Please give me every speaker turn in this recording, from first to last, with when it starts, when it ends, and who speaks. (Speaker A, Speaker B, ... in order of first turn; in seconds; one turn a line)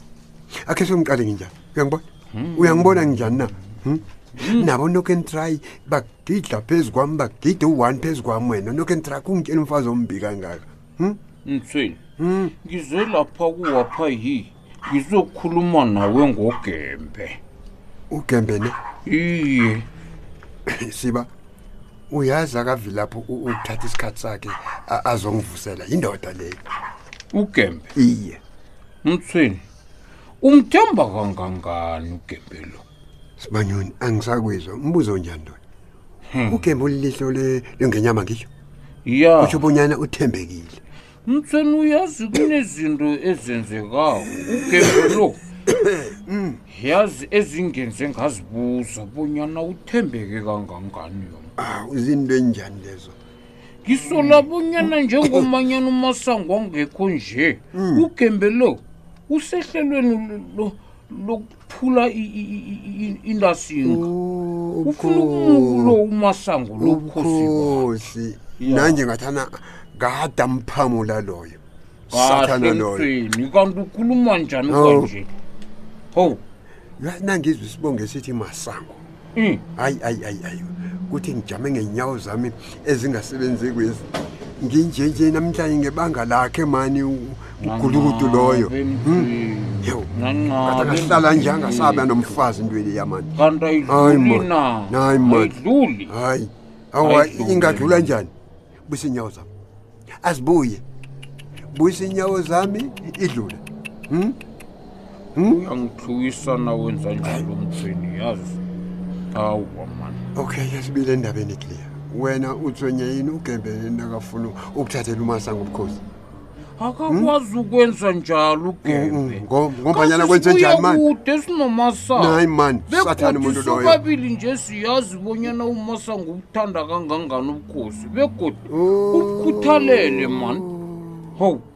Speaker A: 0.7-2.0
Speaker B: 2.3-3.2
Speaker A: 2.5-11.2
Speaker B: 4.4-4.7
Speaker B: 11.4-12.0
Speaker A: 12.2-12.6
Speaker B: 12.6-17.4
Speaker A: 18.1-18.8
Speaker B: 19.1-19.9
Speaker A: 20.7-21.3
Speaker A: 22.1-26.6
Speaker B: 27.3-27.9
Speaker A: 27.9-28.4
Speaker B: 29.0-29.6
Speaker B: 30.4-32.8
Speaker A: 33.4-35.6
Speaker B: 36.3-36.6
Speaker A: 36.5-38.5
Speaker B: 39.0-39.7
Speaker A: 39.4-40.8
Speaker B: 41.3-45.4
Speaker A: 44.8-46.6
Speaker B: 46.7-51.5
Speaker A: 51.6-53.1
Speaker B: 53.9-64.1
Speaker A: 54.1-54.5
Speaker A: 57.7-58.1
Speaker A: 63.8-66.0
Speaker B: 64.8-67.9
Speaker A: 66.8-73.1
Speaker B: 68.6-69.0
Speaker B: 72.1-75.3
Speaker A: 74.7-75.1
Speaker B: 76.1-76.4
Speaker A: 77.0-79.0
Speaker B: 79.4-79.6
Speaker A: 79.8-84.1
Speaker A: 84.6-89.3
Speaker B: 87.6-92.2
Speaker A: 89.8-90.1
Speaker A: 90.6-98.3
Speaker B: 93.4-96.1
Speaker B: 97.0-98.1
Speaker A: 98.9-99.5
Speaker A: 100.2-100.8
Speaker A: 101.7-104.4
Speaker A: 105.4-105.7
Speaker B: 105.4-108.6
Speaker B: 109.3-110.2
Speaker A: 110.3-116.0
Speaker B: 116.8-130.7
Speaker A: 117.1-117.3
Speaker A: 118.8-121.0
Speaker A: 122.1-124.0
Speaker A: 128.7-131.4
Speaker B: 131.4-131.6